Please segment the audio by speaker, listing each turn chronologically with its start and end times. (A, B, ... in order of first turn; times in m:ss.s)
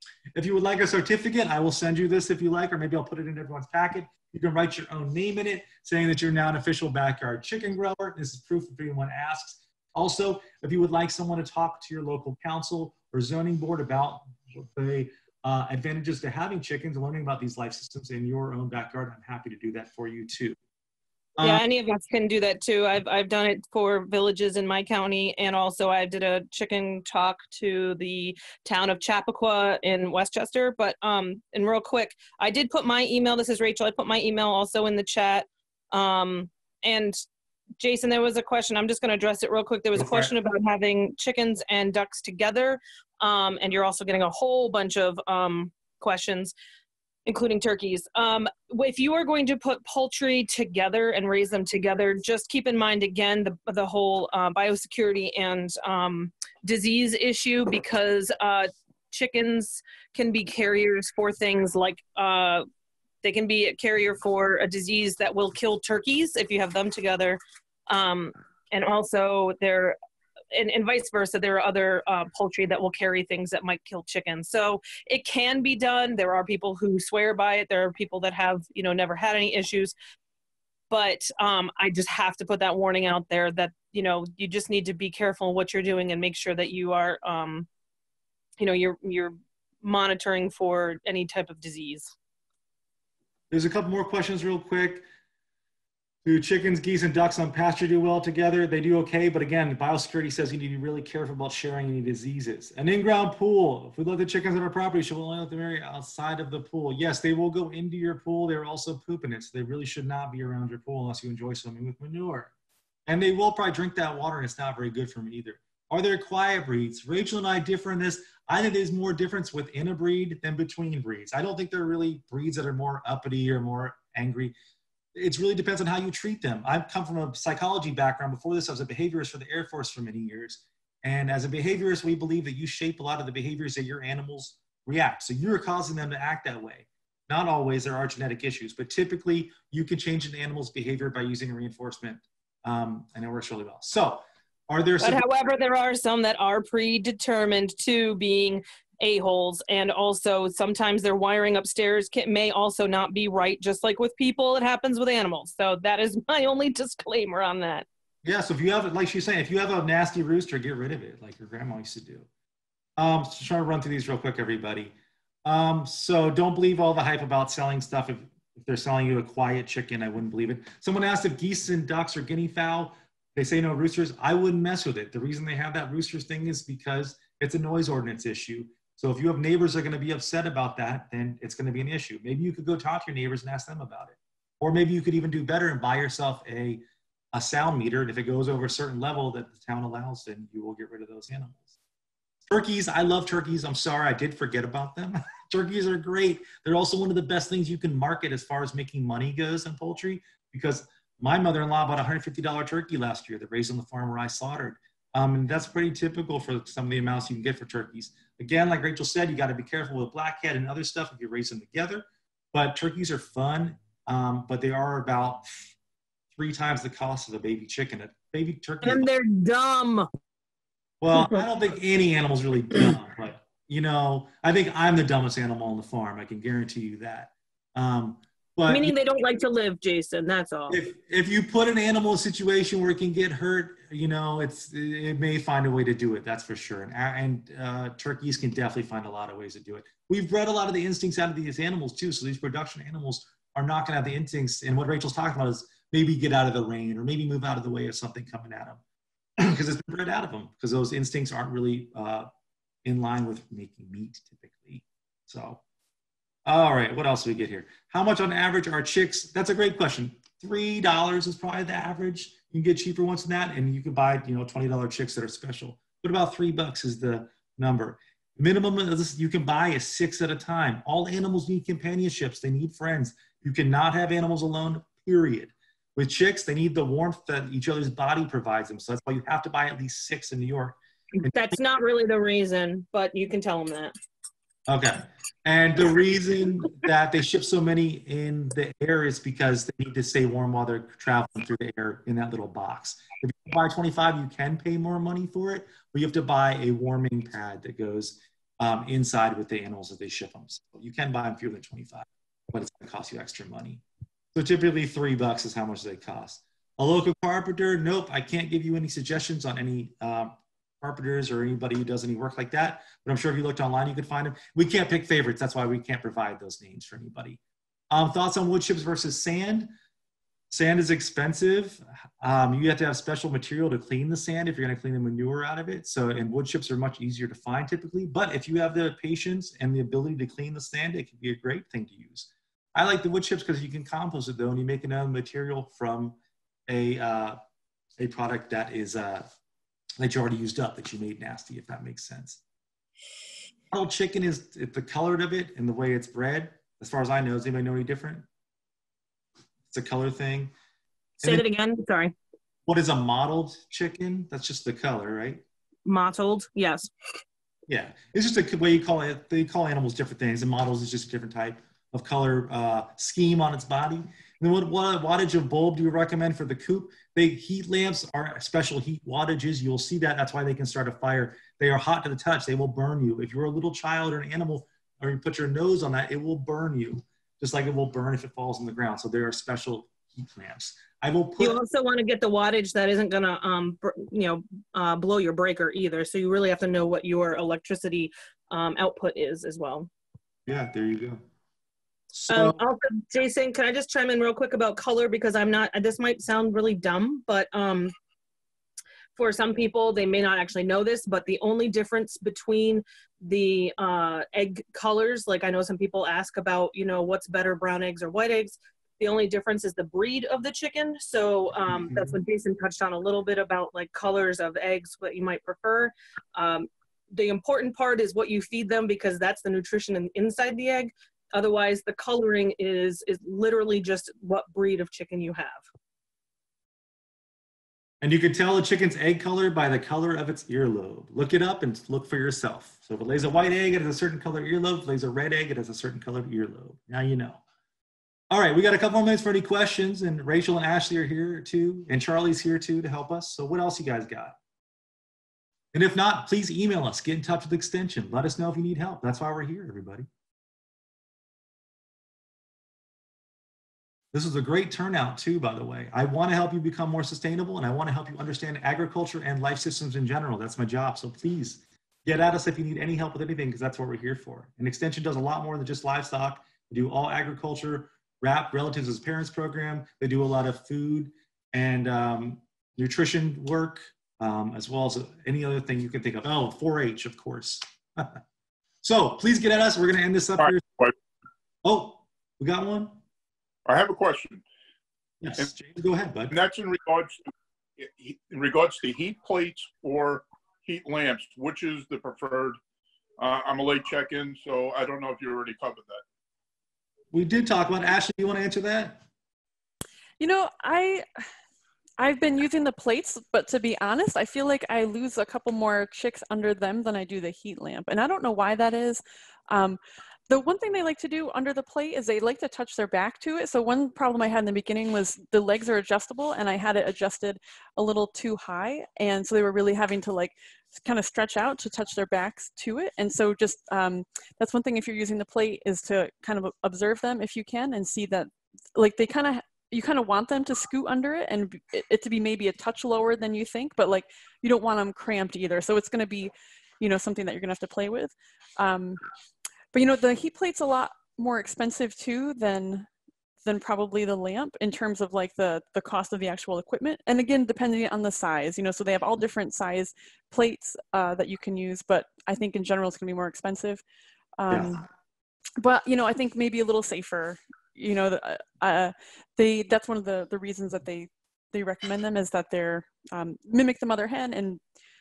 0:00.3-0:20.6 A
0:21.4-0:21.6 A
0:21.4-0:37.2 B
0:37.8-0:46.5 B
0:40.0-0:40.3 A
0:47.2-1:02.6 B
1:03.2-1:10.0 B
1:10.5-1:19.9 B
1:20.9-1:27.7 B
1:28.6-1:32.1 B
1:33.5-1:35.0 A
1:36.2-1:52.5 A
1:53.1-2:04.5 A
2:05.1-2:25.2 A
2:25.0-2:37.8 B
2:38.2-2:42.3 A
2:43.0-2:44.9 A
2:45.4-3:11.7 A
3:12.5-3:35.6 A
3:36.3-3:39.1 A
3:38.8-3:40.1 B
3:41.0-3:48.9 A
3:41.2-3:41.4 B
3:48.7-3:50.8 B
3:50.7-4:08.8 A
4:09.4-4:12.3 A
4:12.8-4:15.6 A
4:16.4-4:41.6 A
4:41.2-4:43.9 B
4:44.7-5:03.8 A
5:04.3-5:17.4 A
5:17.9-5:19.7 A
5:20.5-5:36.2 A
5:36.7-5:37.4 A
5:38.0-5:39.3 A
5:40.0-5:42.4 A
5:43.7-5:48.2 A
5:49.7-5:50.5 A
5:51.2-5:51.4 A
5:51.2-5:52.1 B
5:52.7-5:55.4 A
5:55.8-5:56.9 B
5:57.7-6:21.6 A
6:21.4-6:29.9 B
6:30.4-6:31.2 A
6:32.1-6:32.6 A
6:32.3-6:37.9 B
6:39.2-7:05.6 B
6:51.9-6:52.1 A
7:08.0-7:17.4 A
7:18.3-7:24.4 A
7:25.7-7:30.0 A
7:34.1-7:58.2 A
7:58.8-8:00.6 A
8:01.6-8:03.0 A
8:03.6-8:04.4 C
8:05.2-8:06.4 A
8:06.3-8:07.2 C
8:07.8-8:12.6 C
8:13.2-8:16.0 C
8:17.1-8:19.0 A
8:20.2-8:21.0 D
8:22.0-8:59.0 D
8:59.7-9:02.9 D
9:03.4-9:13.8 D
9:14.4-9:14.8 D
9:14.5-9:14.8 A
9:15.6-9:24.6 D